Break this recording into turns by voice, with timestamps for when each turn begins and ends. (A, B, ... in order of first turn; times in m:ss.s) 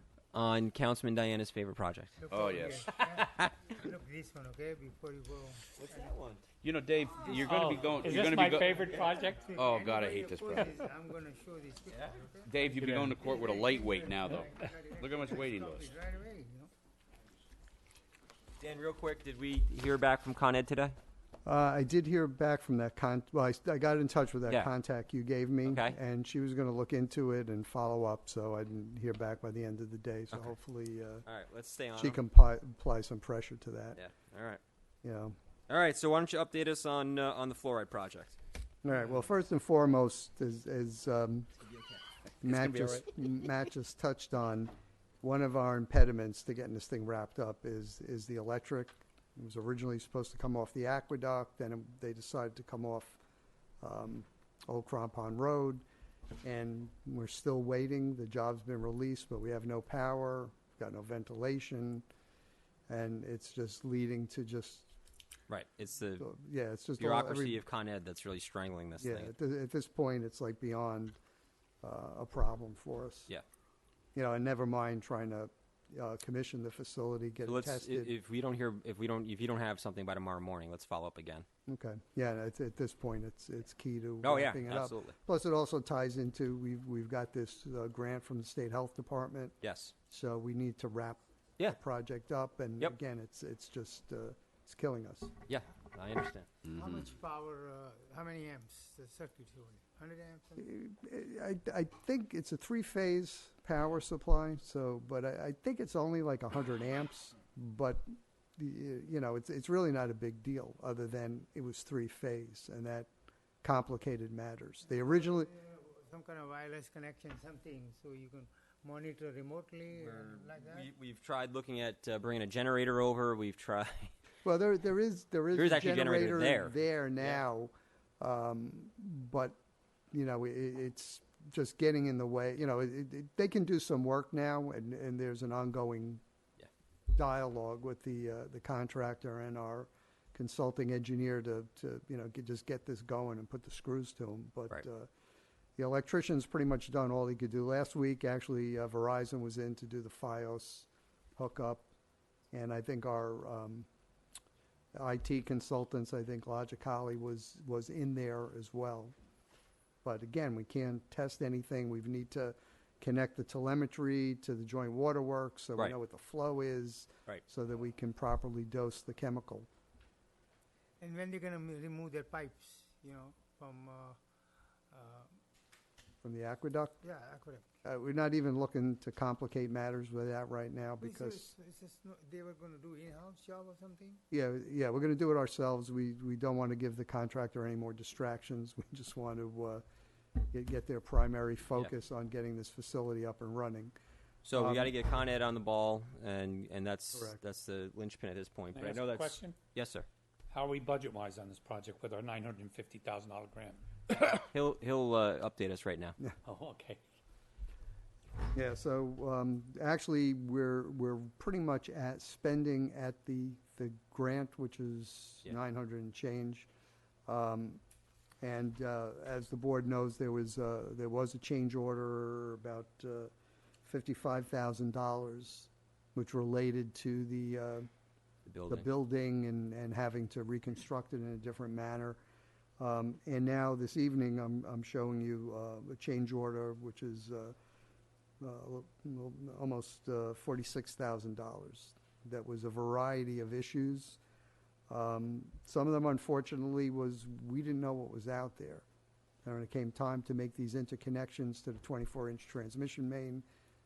0:00.3-0:02.1 A
0:02.2-0:06.2 B
0:02.3-0:02.9 C
0:05.8-0:06.4 A
0:06.6-0:08.8 C
0:07.2-0:09.5 D
0:07.9-0:16.7 B
0:09.6-0:10.7 C
0:12.5-0:15.9 C
0:12.8-0:13.2 D
0:18.6-0:21.0 A
0:21.4-0:31.2 E
0:25.6-0:26.0 A
0:31.3-0:32.2 A
0:32.0-0:34.0 E
0:34.0-0:34.6 A
0:35.0-0:35.4 E
0:35.7-0:38.4 A
0:38.8-0:41.5 E
0:42.4-0:53.2 E
0:42.5-0:43.0 C
0:53.8-0:55.8 E
0:56.4-1:02.0 E
1:02.9-1:04.9 E
1:05.5-1:06.2 A
1:06.2-1:07.6 E
1:07.0-1:09.3 A
1:09.0-1:11.2 E
1:11.8-1:13.3 E
1:14.2-1:18.1 E
1:17.5-1:21.5 A
1:21.7-1:29.6 E
1:24.2-1:25.2 A
1:29.6-1:29.9 A
1:30.1-1:35.3 E
1:35.5-1:36.5 A
1:36.7-1:40.7 B
1:40.6-1:53.1 E
1:53.6-1:55.5 E
1:55.3-2:00.9 B
1:59.9-2:04.2 A
2:04.4-2:09.6 E
2:05.5-2:07.4 A
2:10.1-2:16.2 E
2:17.1-2:25.1 E
2:25.8-2:31.9 E
2:32.5-2:33.9 E
2:34.9-2:39.1 E
2:40.0-2:49.7 E
2:51.0-2:54.2 B
2:54.9-2:55.3 B
2:56.2-2:57.0 E
2:57.0-2:57.7 B
2:57.8-3:01.5 E
3:01.0-3:04.2 B
3:04.3-3:09.8 E
3:10.4-3:14.0 E
3:14.4-3:20.1 A
3:14.5-3:14.9 E
3:17.1-3:17.4 E
3:18.8-3:19.6 D
3:20.5-3:23.8 D
3:24.5-3:26.2 A
3:26.5-3:27.0 D
3:28.5-3:36.7 E
3:37.3-3:37.8 E
3:38.4-3:43.3 E
3:43.8-3:47.9 E
3:48.5-3:48.9 A
3:48.7-3:52.2 E
3:52.8-3:57.6 E
3:58.4-4:04.2 E
4:04.9-4:08.8 E
4:09.4-4:13.4 E